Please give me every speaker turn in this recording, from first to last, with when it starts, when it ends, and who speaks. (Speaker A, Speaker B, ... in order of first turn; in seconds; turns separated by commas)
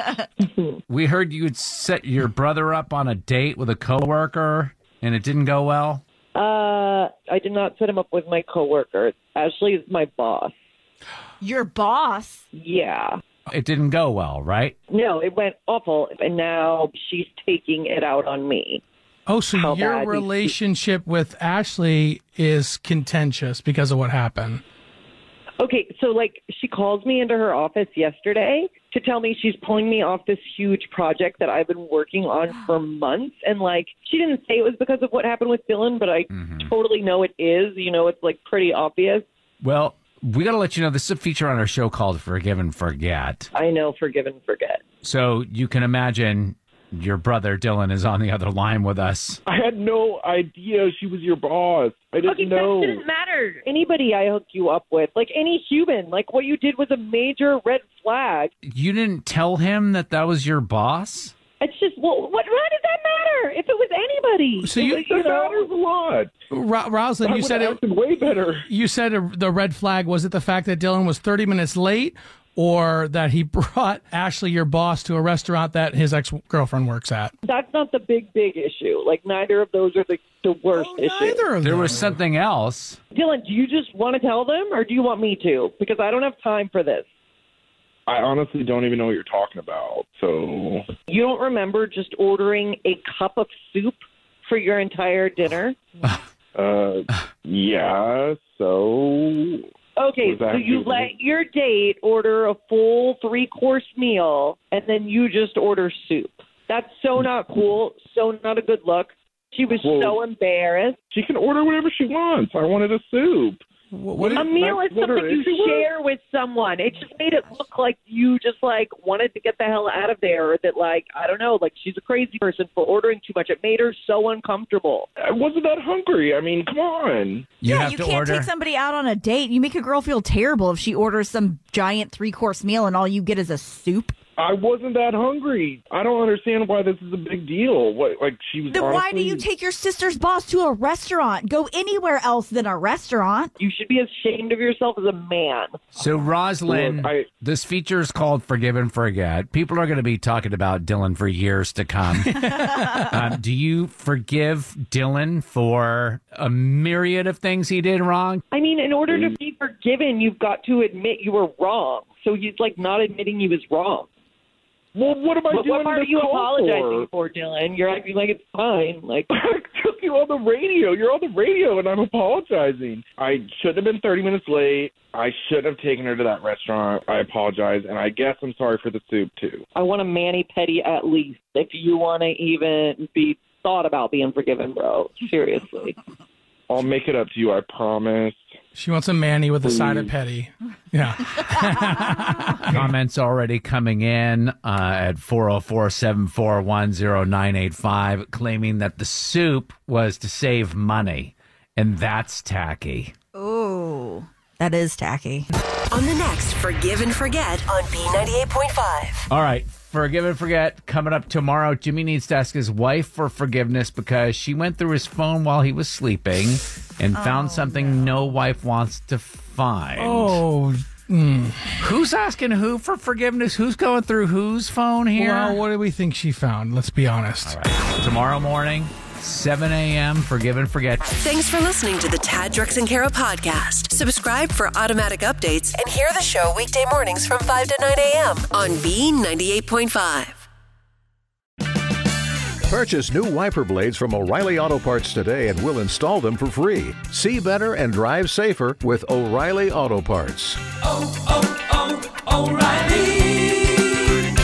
Speaker A: 0.4-0.8, Speaker B: 0.9-6.0, Speaker A: 6.3-10.5, Speaker C: 11.4-12.4, Speaker A: 12.5-13.2, Speaker B: 13.5-14.8, Speaker A: 14.9-18.8, Speaker D: 19.3-24.6, Speaker A: 19.5-20.5, Speaker A: 25.6-39.2, Speaker B: 36.3-36.7, Speaker B: 39.6-43.5, Speaker A: 43.5-44.8, Speaker B: 45.0-49.4, Speaker E: 49.5-53.0, Speaker A: 52.2-58.5, Speaker B: 58.6-61.3, Speaker A: 61.6-65.7, Speaker D: 64.6-65.0, Speaker E: 64.8-66.3, Speaker D: 66.5-67.8, Speaker E: 67.2-68.7, Speaker D: 68.7-77.3, Speaker A: 77.4-81.5, Speaker D: 80.7-82.1, Speaker B: 81.6-83.0, Speaker A: 83.1-87.0, Speaker E: 88.1-90.9, Speaker A: 91.1-95.8, Speaker E: 96.5-99.7, Speaker A: 100.0-111.0, Speaker E: 100.2-101.1, Speaker E: 109.8-110.2, Speaker E: 111.1-113.6, Speaker D: 113.9-114.5, Speaker E: 114.2-115.9, Speaker A: 114.2-125.1, Speaker E: 125.2-127.5, Speaker B: 127.6-128.5, Speaker C: 127.6-134.1, Speaker E: 134.4-139.4, Speaker C: 138.7-143.5, Speaker A: 143.6-145.8, Speaker B: 145.9-158.4, Speaker E: 146.7-147.3, Speaker A: 158.5-164.1, Speaker E: 164.9-167.1, Speaker A: 165.5-169.3, Speaker E: 169.3-179.7, Speaker A: 179.7-186.0, Speaker E: 186.7-188.4, Speaker D: 188.7-192.8, Speaker E: 189.6-190.1, Speaker B: 192.7-203.1, Speaker C: 203.3-205.5, Speaker F: 205.9-209.3, Speaker B: 209.3-220.4, Speaker C: 217.1-218.2, Speaker D: 220.0-221.7, Speaker B: 221.8-225.6, Speaker D: 225.2-227.6, Speaker B: 227.4-231.1, Speaker F: 231.1-240.4, Speaker G: 242.6-250.7, Speaker H: 251.1-253.2